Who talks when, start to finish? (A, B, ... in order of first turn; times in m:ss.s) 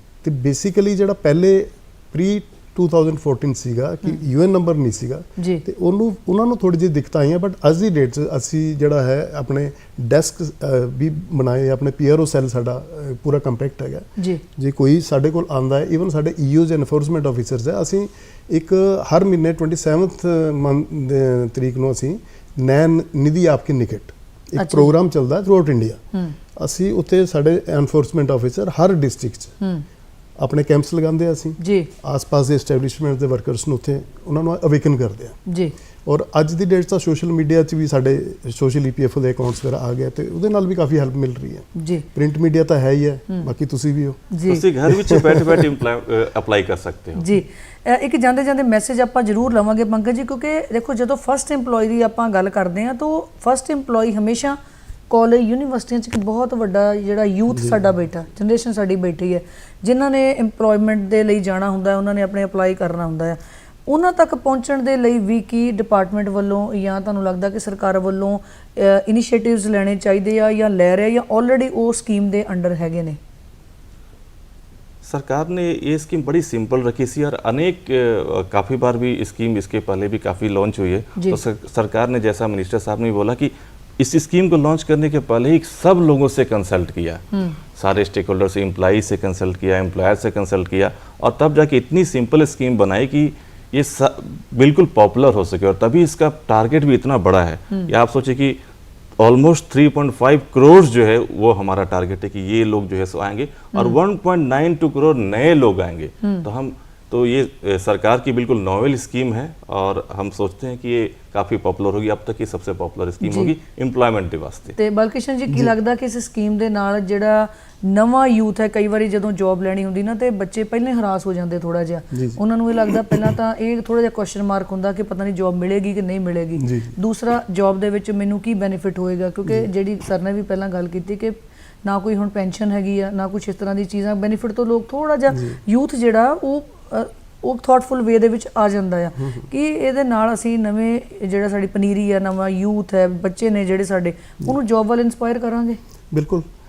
0:00.2-0:26.0 A
0:05.4-0:05.6 B
0:24.6-0:24.9 B
0:26.6-0:29.5 A
0:30.4-0:35.4 A
0:31.6-0:31.9 B
0:35.5-0:35.7 B
0:36.0-0:44.3 A
0:41.8-0:42.1 B
0:44.3-0:44.6 B
0:44.5-0:47.3 C
0:44.9-0:45.7 A
0:47.2-0:54.6 B
0:55.1-1:13.2 B
1:15.0-1:27.2 C
1:27.8-1:38.6 C
1:39.2-1:54.8 C
1:53.2-1:53.5 B
1:54.8-2:25.8 B
2:02.1-2:03.3 A
2:06.6-2:07.0 A
2:15.3-2:15.6 A
2:19.2-2:19.5 A
2:26.1-2:26.5 A